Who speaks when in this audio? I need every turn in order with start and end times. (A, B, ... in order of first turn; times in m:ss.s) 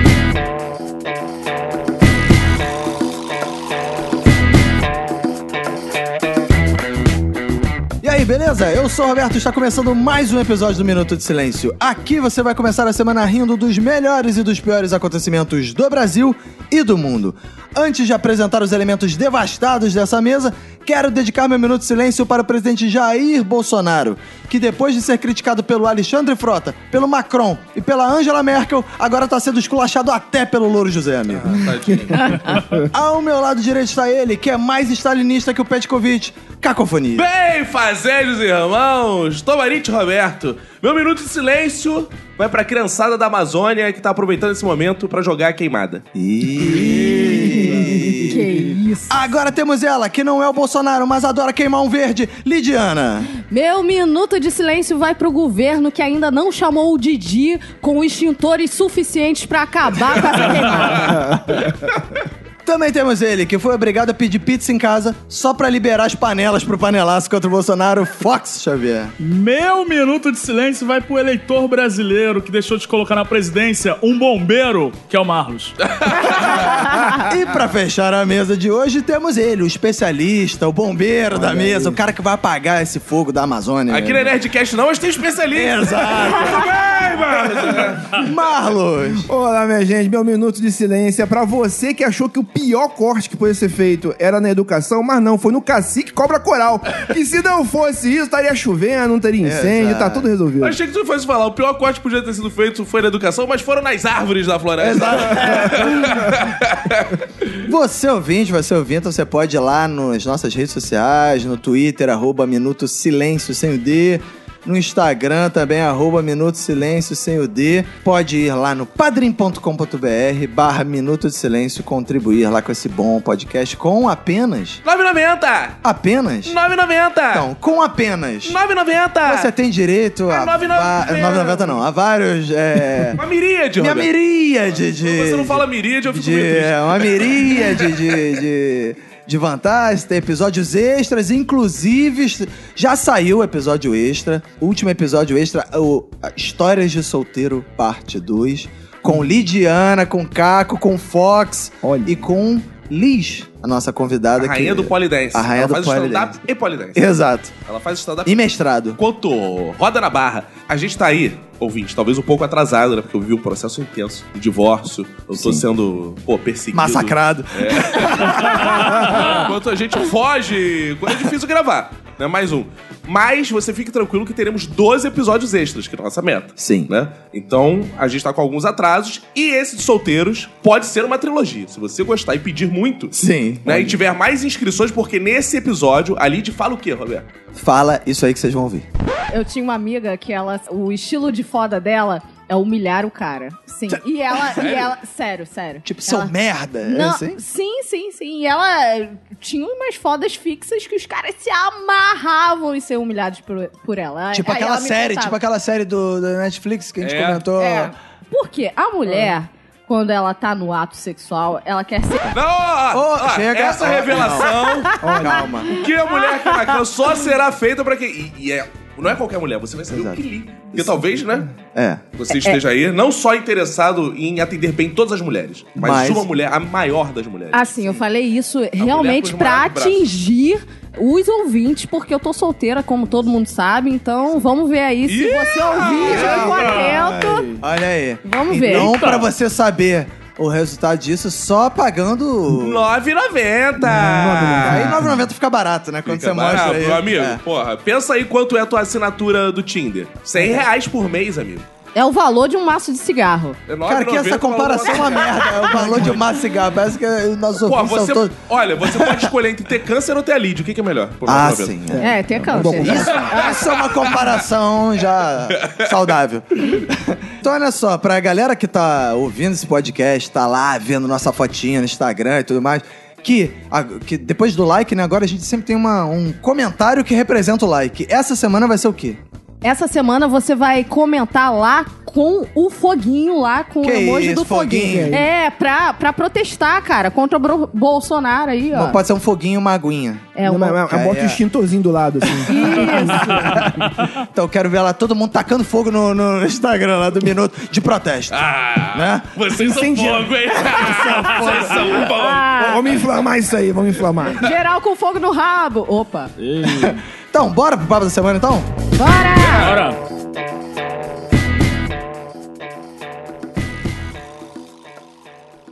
0:08.0-0:32.3 A
0:31.3-0:32.6 B
0:32.5-0:32.9 C
0:32.9-0:37.3 A
0:37.1-0:46.0 B
0:46.1-0:53.3 A
0:46.6-0:48.8 C
0:47.4-0:47.7 D
0:48.2-0:49.3 D
0:53.4-1:01.2 D
1:01.0-1:01.6 A
1:02.6-1:09.1 A
1:09.2-1:15.7 E
1:15.8-1:16.7 B
1:16.3-1:24.3 A
1:21.3-1:22.0 C
1:23.9-1:28.2 B
1:25.5-1:26.8 A
1:27.6-1:29.3 A
1:29.2-1:40.8 C
1:39.4-1:40.3 A
1:40.6-1:47.2 B
1:44.8-1:46.0 A
1:47.6-2:04.8 A
2:04.8-2:05.8 B
2:05.8-2:06.6 A
2:06.4-2:07.5 B
2:07.3-2:08.6 A
2:08.4-2:09.5 B
2:09.2-2:13.2 A
2:10.3-2:11.8 B
2:13.1-2:14.1 B
2:13.8-2:36.4 A
2:14.7-2:18.2 B
2:31.8-2:32.2 C
2:34.4-2:38.4 B
2:36.9-2:37.5 A
2:38.2-2:39.0 A
2:39.0-3:07.3 B
2:45.3-2:45.6 A
2:46.7-2:49.3 A
2:56.6-2:56.9 A
3:03.1-3:04.0 A
3:07.5-3:08.8 A
3:09.3-3:16.3 D
3:14.5-3:14.9 B
3:15.8-3:17.4 A
3:16.8-3:25.4 D
3:24.3-3:27.9 A
3:27.0-3:27.4 B
3:27.6-3:32.3 D
3:32.3-3:35.0 B
3:32.9-3:35.7 A
3:35.0-3:35.5 C
3:35.6-3:41.5 B
3:39.9-3:40.2 A
3:40.7-3:42.0 A
3:42.2-3:47.7 B
3:42.3-3:42.6 D
3:45.8-3:46.3 A
3:47.5-3:57.5 D
3:48.8-3:50.1 B
3:55.1-3:56.8 B
3:56.0-3:56.7 A
3:56.1-3:57.6 C
3:57.6-4:02.9 A
3:58.2-3:58.9 D
3:58.6-3:59.3 E
4:02.5-4:05.0 B
4:03.8-4:05.2 C
4:04.0-4:07.4 A
4:06.0-4:11.6 B
4:10.4-4:10.6 A
4:11.9-4:13.6 D
4:13.7-4:16.2 B
4:13.8-4:19.3 A
4:17.6-4:21.8 B
4:21.2-4:39.2 A
4:21.9-4:23.2 C
4:22.0-4:23.7 D
4:22.9-4:24.3 B
4:25.6-4:25.9 B
4:39.6-4:49.0 D
4:43.8-4:45.2 A
4:44.8-4:45.3 C
4:48.7-4:50.3 A
4:50.4-4:50.8 D
4:50.4-4:53.9 C
4:50.9-4:51.4 A
4:52.5-4:53.6 D
4:53.2-4:59.3 A
4:58.3-5:02.5 B
4:59.6-5:01.9 C
5:01.9-5:03.0 D
5:02.5-5:04.4 C
5:04.4-5:06.3 D
5:06.4-5:07.0 E
5:06.6-5:08.7 A
5:09.0-5:09.8 D
5:09.5-5:10.0 E